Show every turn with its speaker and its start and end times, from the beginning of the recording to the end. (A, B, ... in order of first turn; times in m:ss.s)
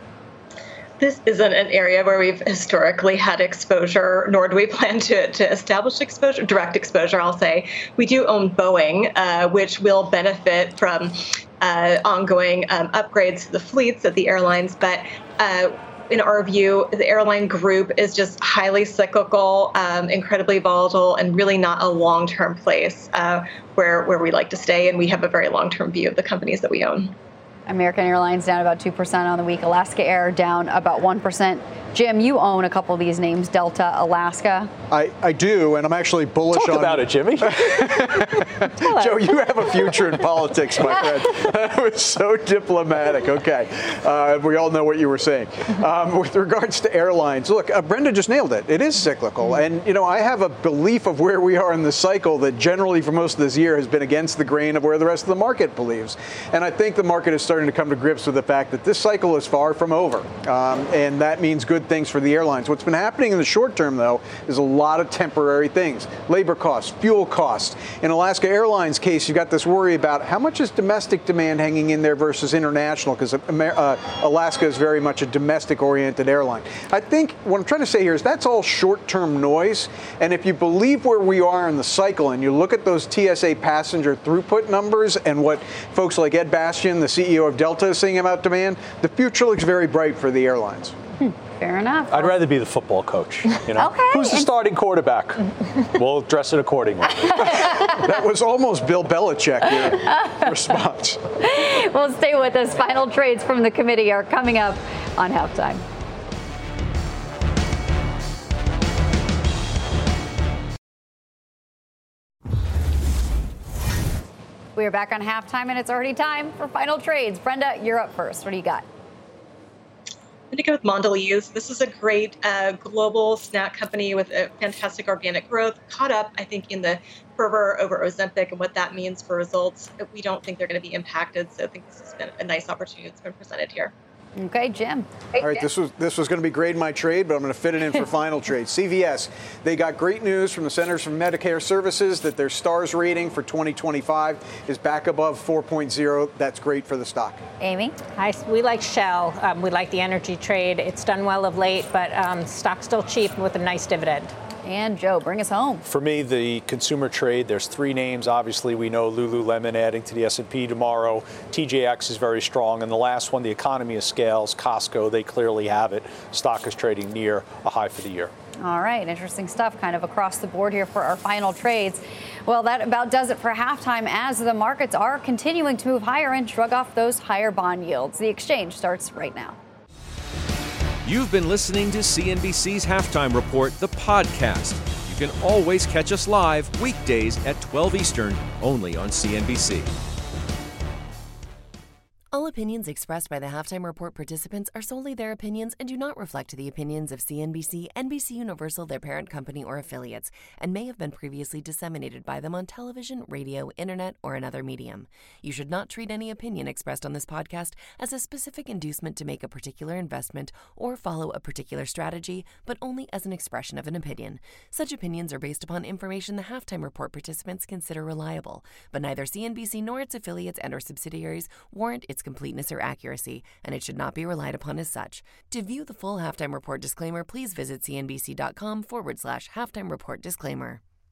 0:01.0-0:27.1 A
0:27.7-0:34.7 B
0:34.9-1:30.9 C
0:36.5-0:38.1 D
0:38.8-0:39.2 E
1:31.2-1:32.4 B
1:32.1-1:37.4 D
1:33.8-1:34.5 B
1:37.4-1:41.2 C
1:41.4-1:45.8 B
1:54.8-1:58.8 B
2:00.5-2:13.9 A
2:14.4-2:15.6 B
2:15.4-2:27.4 C
2:27.6-2:27.9 B
2:28.2-2:34.3 E
2:34.6-2:35.8 B
2:35.8-2:48.3 D
2:48.6-2:59.6 B
3:01.0-3:09.9 F
3:12.3-3:50.8 G